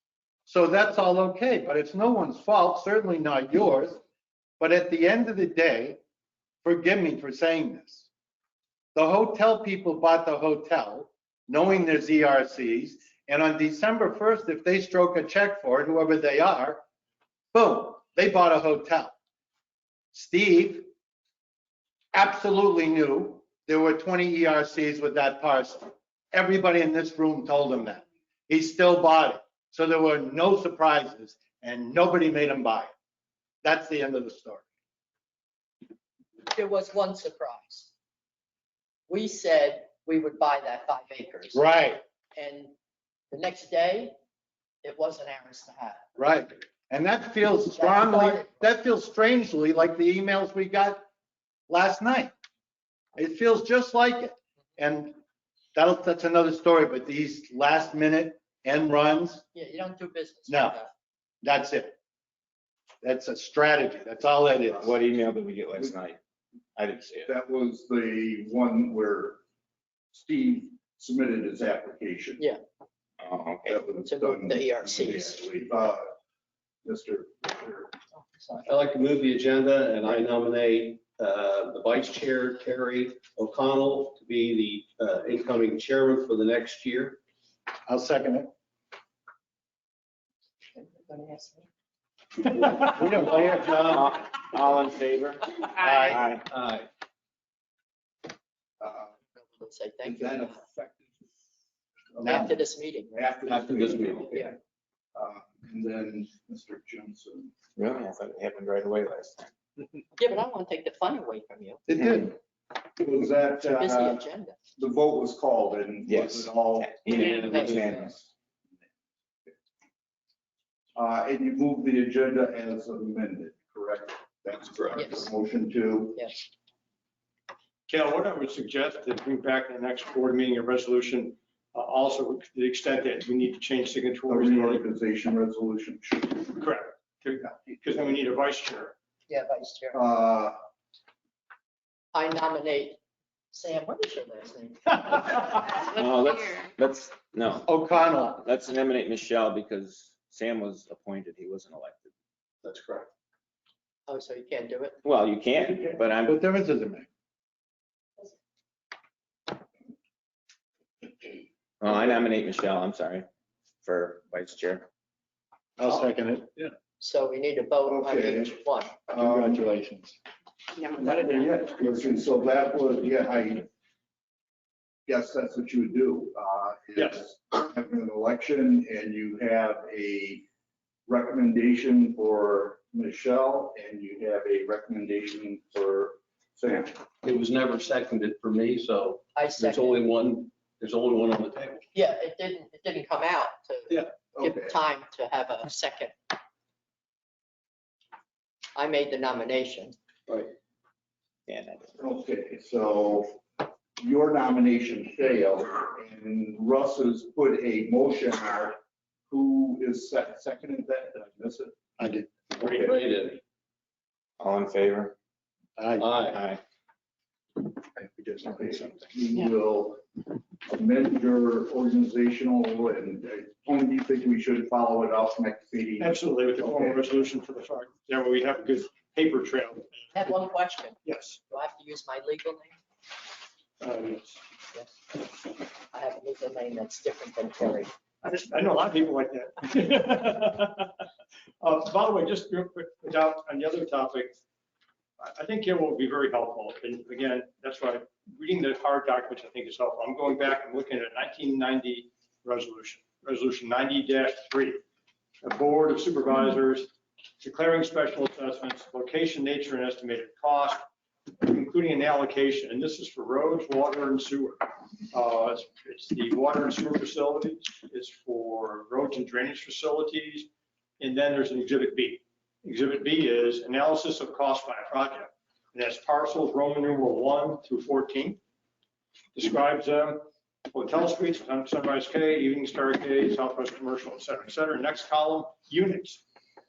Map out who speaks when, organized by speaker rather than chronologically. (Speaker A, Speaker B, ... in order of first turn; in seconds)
Speaker A: 0.5-4.0, 4.6-6.0, 6.6-8.1, 8.9-16.8, 17.5-19.1, 20.1-20.9, 22.1-32.9, 33.6-34.6, 41.5-42.0, 46.2-51.0, 51.7-52.3, 53.2-55.2, 55.8-59.4, 60.5-60.8, 61.4-62.0, 63.0-64.9, 87.9-88.5, 92.5-94.1, 95.8-96.2, 111.9-112.3, 147.7-148.4, 156.2-157.1, 165.8-166.5, 169.2-170.2, 212.0-212.3, 215.8-216.2, 218.0-218.5
Speaker B: 36.5-37.9, 39.1-41.6, 42.4-42.7, 43.3-44.1, 44.8-46.0, 47.7-48.5, 59.5-60.9, 74.0-75.4, 78.2-78.6, 90.8-91.6, 99.3-100.6, 102.2-103.2, 104.2-104.5, 110.2-111.8, 113.6-114.6, 117.1-118.2, 125.0-125.3, 126.2-126.4, 139.3-140.0, 142.1-143.0, 143.5-145.7, 154.1-155.0, 167.0-168.9, 189.3-190.0, 191.9-196.3, 198.8-199.9, 230.1-232.7, 234.7-237.9
Speaker C: 64.8-66.2, 66.8-67.3, 73.2-73.8, 93.8-96.5, 103.5-104.2, 107.8-109.5, 116.1-118.1, 145.8-152.1, 155.0-156.4, 161.8-163.3, 163.8-164.9, 201.5-202.0, 214.4-215.2, 216.3-216.6
Speaker D: 67.3-69.4, 70.1-72.4, 73.7-76.1, 76.8-77.9, 98.8-99.1, 100.0-101.2, 102.1-102.6, 103.1-104.6, 105.2-107.5, 113.0-114.2, 114.8-118.2, 121.0-126.3, 134.3-136.5, 139.9-140.6, 155.6-156.0, 167.9-169.7, 170.9-173.7, 175.1-180.4, 181.1-187.0, 194.4-194.7, 202.0-203.4, 204.0-208.8, 209.3-213.0, 218.4-220.0, 220.7-227.0
Speaker E: 78.7-87.2, 96.5-96.9, 187.2-191.9, 212.6-213.4, 216.0-216.4
Speaker F: 127.9-134.8, 136.5-138.9, 177.0-177.2, 226.0-230.0, 231.1-231.4, 233.8-234.4, 238.2-241.1, 241.6-244.4, 245.2-254.8, 255.4-256.9, 257.4-260.8, 261.4-270.5, 271.0-278.4, 279.4-286.2